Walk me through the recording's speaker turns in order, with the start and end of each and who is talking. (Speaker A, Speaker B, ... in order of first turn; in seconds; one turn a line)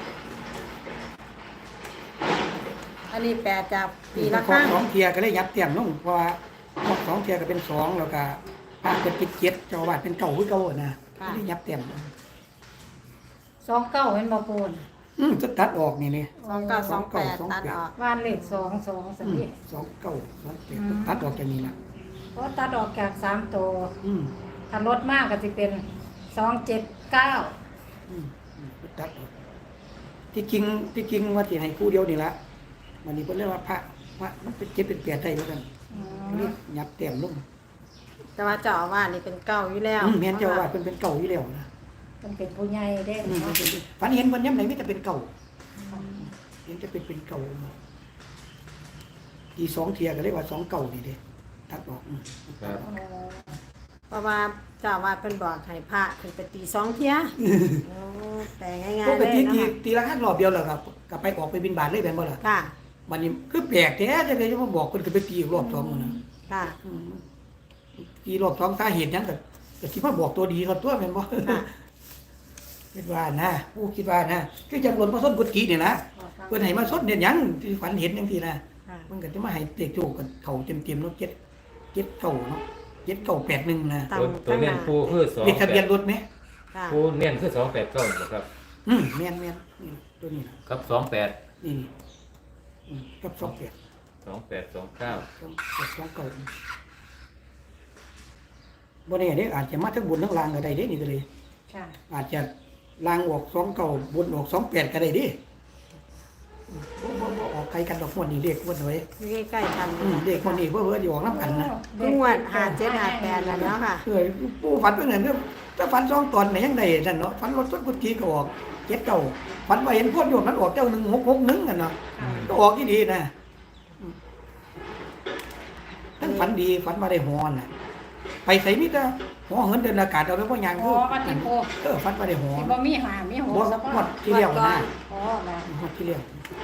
Speaker A: 3.1-4.8
Speaker B: 4.1-12.1
Speaker C: 13.6-14.8
Speaker B: 15.2-17.8
Speaker C: 16.4-17.0
Speaker A: 16.4-17.9
Speaker C: 18.0-19.5
Speaker B: 19.2-21.8
Speaker C: 20.7-21.2
Speaker C: 22.3-23.9
Speaker B: 24.0-24.3
Speaker C: 24.7-27.5
Speaker B: 28.1-29.3
Speaker B: 30.3-32.4
Speaker B: 33.0-37.4
Speaker C: 35.9-36.5
Speaker A: 38.4-40.7
Speaker B: 40.0-41.7
Speaker C: 42.2-43.6
Speaker B: 43.2-45.3
Speaker C: 45.9-46.3
Speaker A: 45.9-46.2
Speaker B: 46.6-47.7
Speaker B: 49.5-52.9
Speaker C: 52.8-53.5
Speaker A: 54.1-59.7
Speaker B: 57.4-57.8
Speaker B: 59.0-62.4
Speaker A: 62.4-62.7
Speaker B: 63.1-66.2
Speaker A: 65.8-66.8
Speaker B: 66.8-67.2
Speaker B: 68.0-71.7
Speaker B: 72.9-81.4
Speaker C: 76.1-77.0
Speaker B: 81.9-84.1
Speaker A: 84.1-85.1
Speaker D: 84.1-85.8
Speaker B: 85.4-86.2
Speaker A: 86.7-87.0
Speaker D: 86.9-88.5
Speaker B: 88.8-90.6
Speaker D: 90.7-91.4
Speaker B: 91.6-91.9
Speaker B: 92.9-93.7
Speaker D: 94.2-95.2
Speaker B: 95.4-96.5
Speaker B: 99.0-101.2
Speaker C: 101.7-102.0
Speaker B: 102.1-105.4
Speaker B: 106.7-109.0
Speaker A: 109.2-110.6
Speaker B: 110.0-111.7
Speaker C: 111.3-113.7
Speaker A: 112.0-114.0
Speaker B: 113.4-123.3
Speaker C: 122.2-122.5
Speaker D: 122.2-122.5
Speaker B: 126.2-127.7
Speaker A: 126.2-126.5
Speaker B: 128.4-132.8
Speaker C: 130.8-131.7
Speaker C: 132.6-134.2
Speaker B: 133.5-134.9
Speaker A: 134.2-134.9
Speaker C: 135.0-135.7
Speaker B: 135.7-136.4